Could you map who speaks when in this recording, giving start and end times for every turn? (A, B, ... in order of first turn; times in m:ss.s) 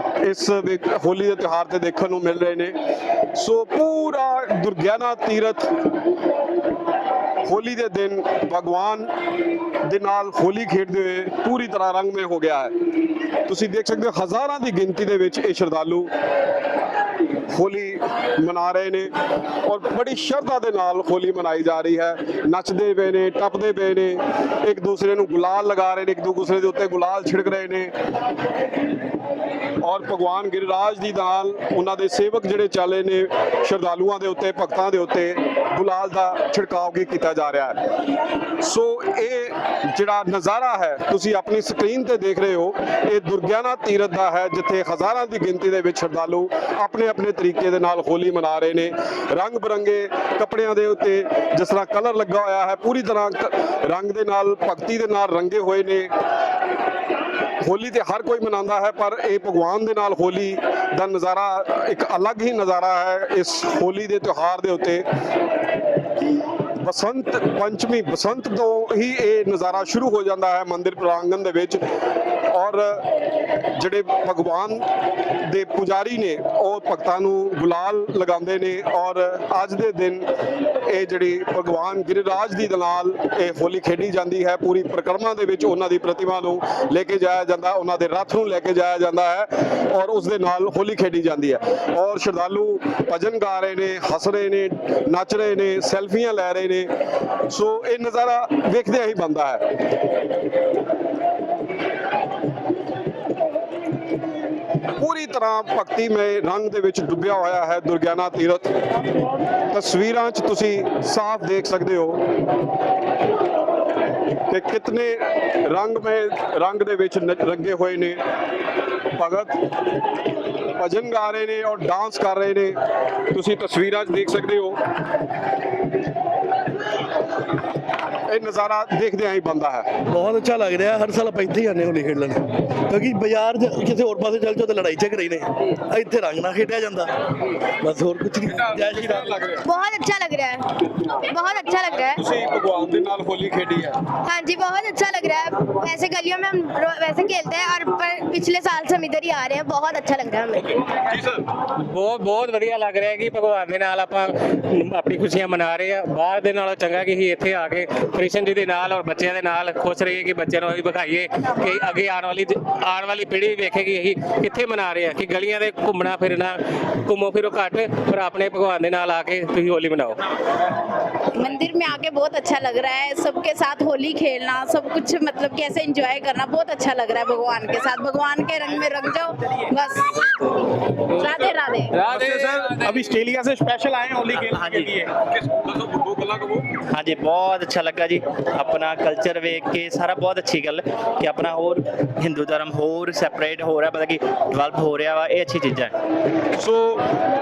0:00.2-0:02.8 A
0:03.3-0:05.7 A
0:07.4-0:09.1 A
0:09.8-0:12.7 A
0:13.5-0:16.1 A
0:17.5-0:19.1 A
0:19.6-0:27.9 A
0:29.8-0:37.8 A
0:38.6-0:56.1 A
0:57.6-1:05.1 A
1:06.8-1:11.8 A
1:12.5-1:13.1 A
1:13.7-1:14.9 A
1:15.4-1:20.3 A
1:20.8-1:36.9 A
1:37.5-1:39.6 A
1:45.0-1:48.8 A
1:49.7-1:52.2 A
1:54.5-1:58.2 A
1:59.2-1:59.6 A
2:00.8-2:02.8 A
2:03.3-2:04.8 A
2:08.3-2:09.9 A
2:10.1-2:17.1 B
2:17.8-2:19.3 B
2:18.7-2:19.7 A
2:19.6-2:20.7 C
2:21.3-2:22.2 C
2:22.0-2:24.0 A
2:24.2-2:30.7 C
2:31.9-2:50.2 D
2:51.4-3:00.4 E
3:01.1-3:02.1 E
3:02.0-3:05.1 F
3:04.4-3:05.0 G
3:05.7-3:06.6 A
3:06.9-3:16.0 G
3:16.6-3:17.0 A